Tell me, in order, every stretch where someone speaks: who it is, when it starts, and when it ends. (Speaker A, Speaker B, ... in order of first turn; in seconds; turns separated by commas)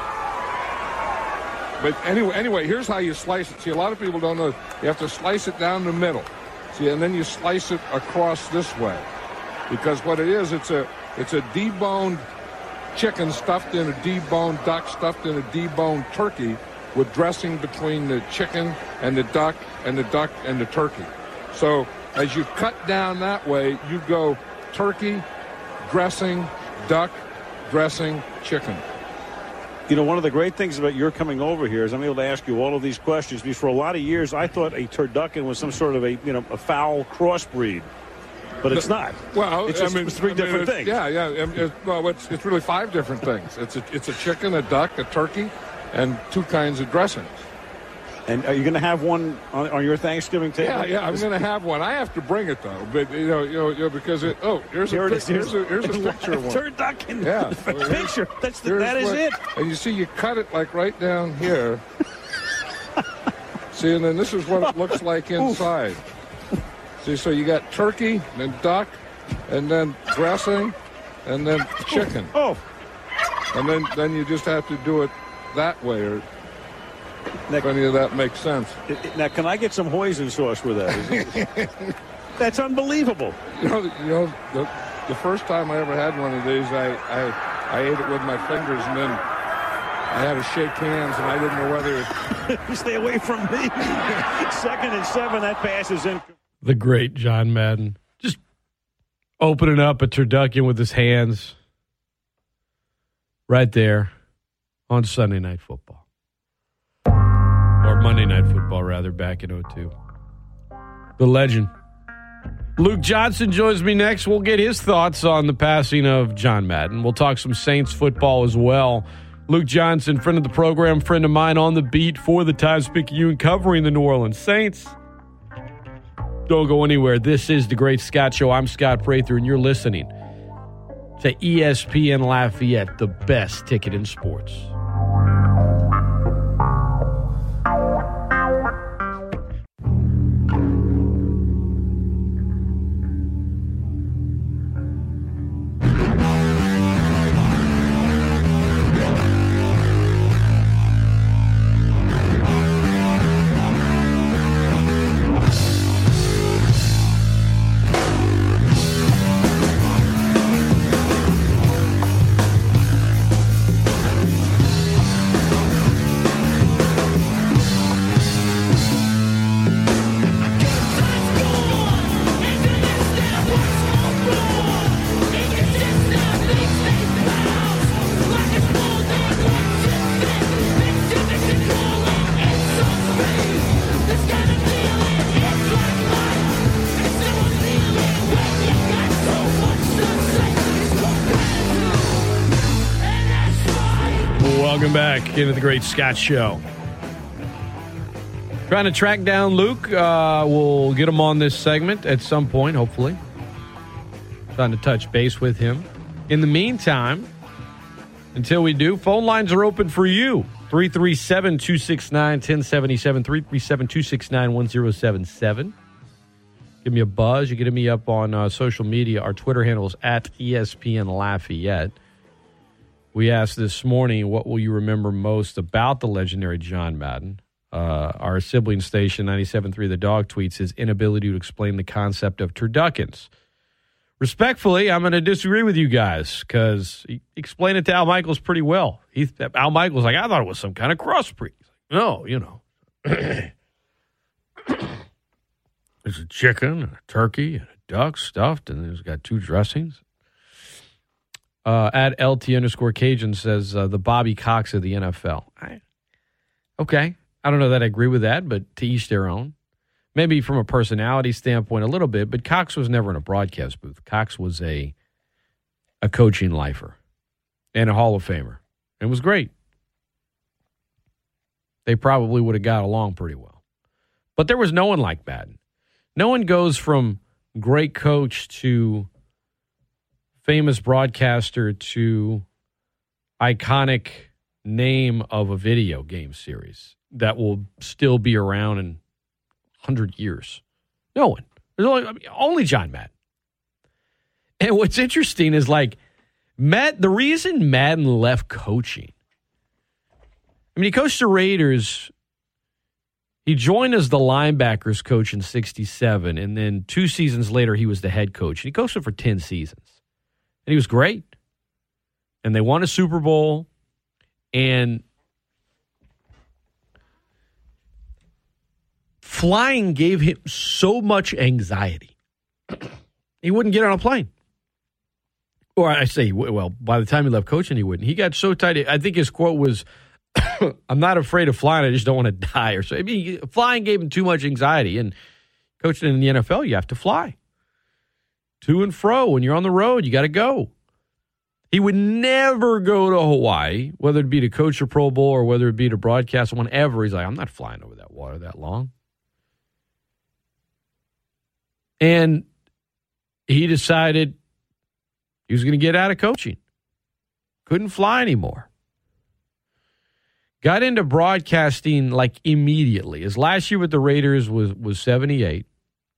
Speaker A: 1.8-9.1, Speaker A: 9.7-12.2, Speaker A: 12.9-25.2, Speaker A: 25.8-28.8, Speaker B: 29.9-37.9, Speaker B: 38.6-41.0, Speaker A: 38.7-47.4, Speaker B: 48.3-51.3, Speaker A: 50.6-56.6, Speaker B: 54.9-59.4, Speaker A: 57.2-61.8, Speaker A: 63.7-66.0, Speaker B: 65.4-65.6, Speaker A: 67.0-72.3, Speaker B: 71.9-72.6, Speaker A: 73.5-76.2, Speaker A: 77.6-78.8, Speaker B: 78.9-81.5, Speaker A: 81.0-81.9, Speaker B: 82.4-83.4, Speaker A: 83.5-89.2, Speaker A: 90.1-92.1, Speaker B: 92.3-96.3, Speaker C: 96.6-98.4, Speaker C: 99.4-101.6, Speaker C: 103.5-104.1, Speaker C: 104.9-106.0, Speaker C: 107.8-109.9, Speaker C: 111.2-111.7, Speaker C: 112.8-125.0, Speaker C: 126.5-130.1, Speaker C: 131.2-134.7, Speaker C: 194.3-196.6, Speaker C: 198.7-203.2, Speaker C: 204.5-207.3, Speaker C: 208.3-215.7, Speaker C: 216.8-222.0, Speaker C: 223.1-233.3, Speaker C: 234.2-243.5, Speaker C: 246.0-250.0, Speaker C: 251.6-255.8, Speaker C: 256.8-259.5, Speaker C: 260.1-264.9, Speaker C: 266.0-267.0, Speaker C: 267.7-269.5, Speaker C: 271.9-273.6, Speaker C: 274.4-275.6, Speaker C: 276.1-279.1, Speaker C: 280.4-282.4, Speaker C: 283.4-289.0, Speaker C: 289.8-290.6, Speaker C: 291.1-293.1, Speaker C: 294.6-296.0, Speaker C: 296.6-299.1, Speaker C: 300.7-302.1, Speaker C: 303.4-309.9, Speaker C: 310.6-311.3, Speaker C: 312.4-313.7, Speaker C: 314.5-315.0, Speaker C: 319.2-322.1, Speaker C: 323.4-324.3, Speaker C: 325.8-329.8, Speaker C: 330.4-335.1, Speaker C: 335.8-337.4, Speaker C: 338.6-340.7, Speaker C: 341.7-348.9, Speaker C: 352.0-352.5, Speaker C: 353.5-354.4, Speaker C: 355.5-356.6, Speaker C: 357.7-358.7, Speaker C: 360.6-365.7